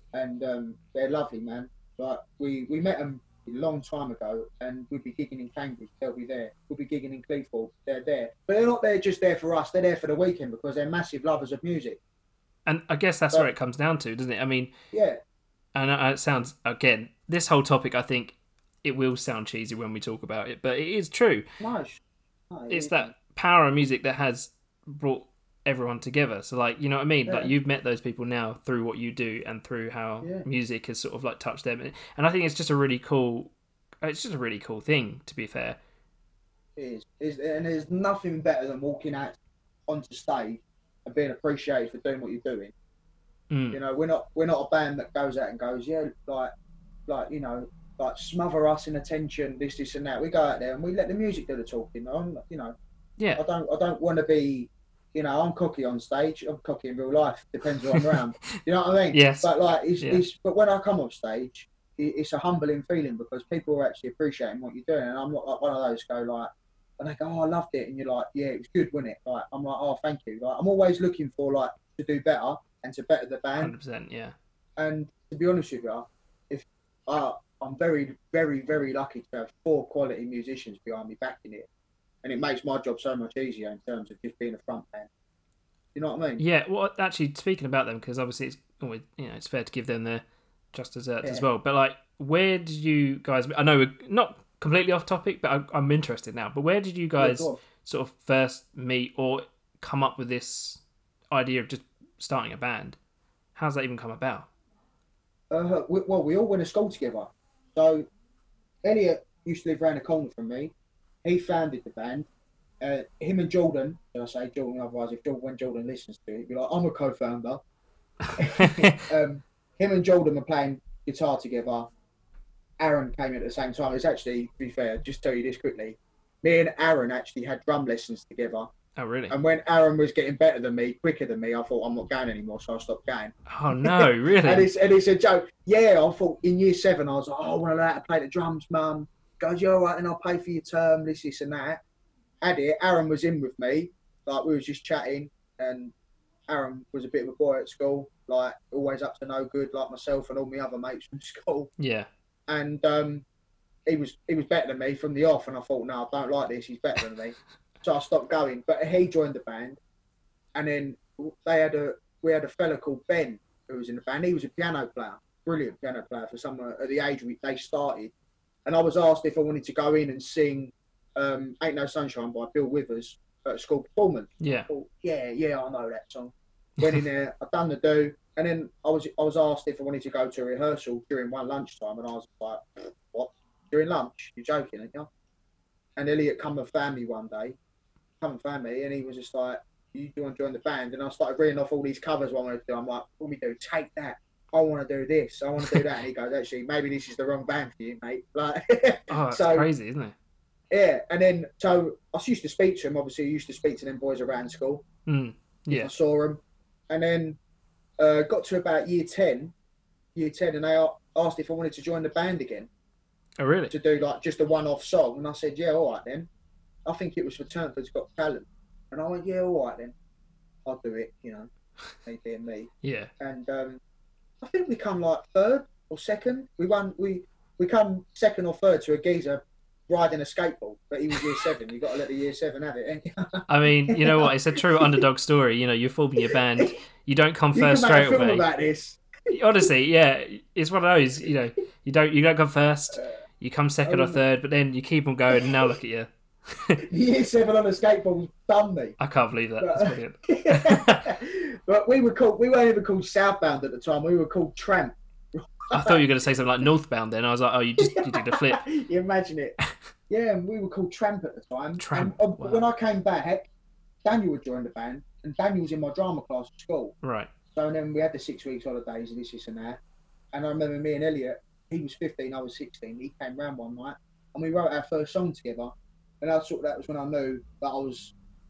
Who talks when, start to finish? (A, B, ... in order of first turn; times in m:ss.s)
0:00.1-0:12.0 A
0:12.6-0:14.7 B
0:14.9-0:15.2 A
0:15.7-0:21.4 B
0:21.6-0:22.0 A
0:22.5-0:23.1 A
0:22.7-0:35.8 B
0:36.8-0:42.7 A
0:43.5-0:43.8 B
0:43.7-0:46.5 A
0:47.1-0:52.8 A
0:53.2-0:53.4 B
0:53.3-1:13.7 A
0:57.9-0:58.2 B
0:59.1-1:00.2 B
1:13.6-1:14.4 B
1:14.8-1:21.7 A
1:22.2-1:25.1 A
1:25.9-1:26.4 A
1:26.4-1:43.0 B
1:37.2-1:37.6 A
1:43.5-1:44.5 B
1:45.5-1:48.1 A
1:48.8-1:50.7 A
1:51.2-1:52.3 A
1:52.8-1:57.6 A
1:58.4-2:01.9 A
1:58.6-1:59.0 B
2:02.8-2:08.7 A
2:09.0-2:09.3 B
2:09.3-2:21.8 A
2:13.5-2:14.7 B
2:22.4-2:25.9 A
2:26.5-2:31.7 A
2:31.8-2:32.1 B
2:32.5-2:33.2 A
2:33.9-2:39.8 A
2:40.5-2:48.1 A
2:48.6-3:05.1 A
2:54.4-2:54.7 B
3:06.0-3:07.6 A
3:08.2-3:19.7 A
3:19.1-3:20.1 B
3:20.7-3:24.8 A
3:25.0-3:25.9 B
3:25.7-3:27.4 A
3:28.0-3:29.5 A
3:30.1-3:32.7 A
3:33.4-3:33.7 B
3:33.7-3:36.3 A
3:36.8-3:39.9 A
3:40.6-3:41.5 A
3:42.0-3:43.8 A
3:42.8-3:43.1 B
3:44.4-3:55.0 A
3:53.5-3:58.4 B
3:56.3-3:56.8 A
3:57.5-3:59.0 A
3:59.3-4:06.8 B
4:03.8-4:04.2 A
4:06.9-4:09.0 A
4:09.0-4:11.1 B
4:09.6-4:16.0 A
4:15.7-4:18.6 B
4:17.8-4:19.6 A
4:20.1-4:23.4 A
4:21.8-4:22.6 B
4:24.0-4:26.9 A
4:27.0-4:27.3 B
4:27.5-4:29.8 A
4:30.3-4:38.1 A